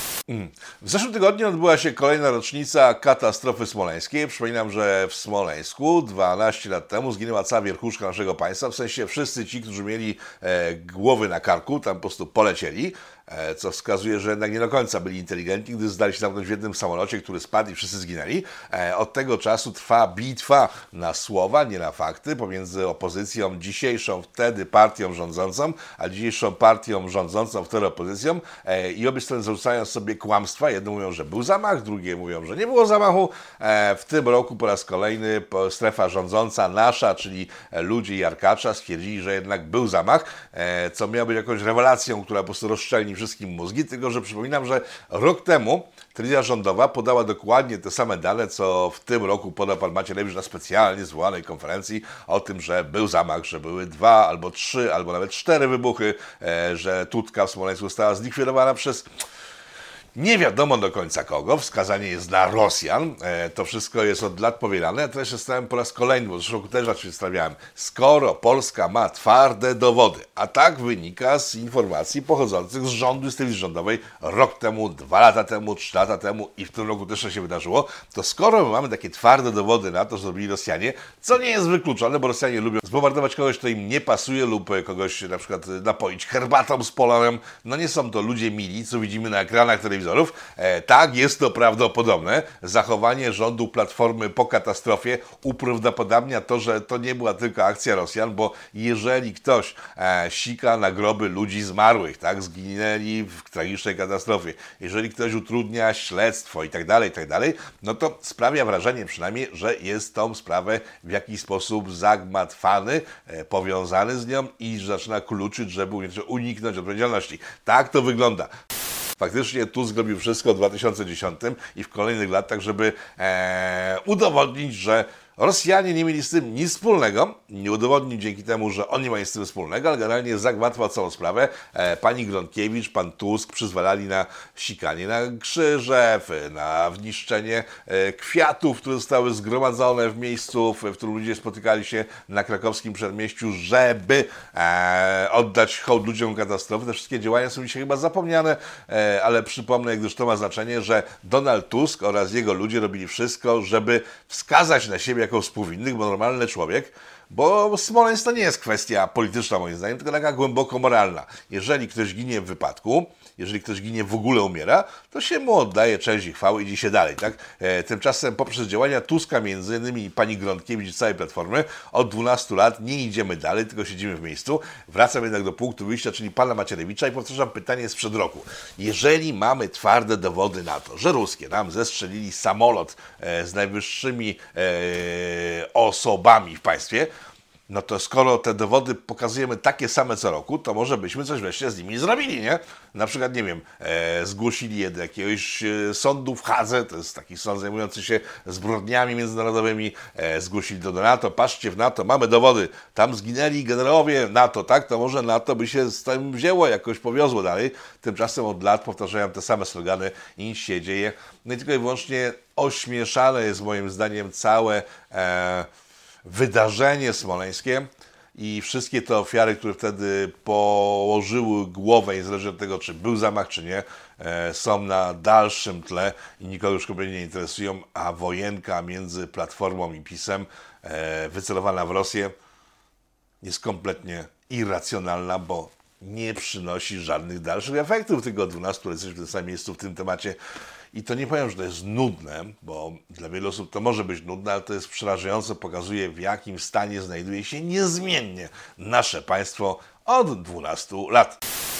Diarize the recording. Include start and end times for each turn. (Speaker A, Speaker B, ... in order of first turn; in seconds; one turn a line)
Speaker A: 0.3-59.1
Speaker A: 60.1-118.5
Speaker A: 119.2-187.1
Speaker A: 187.7-215.7
Speaker A: 216.2-232.3
Speaker A: 233.4-240.4
Speaker A: 240.9-251.4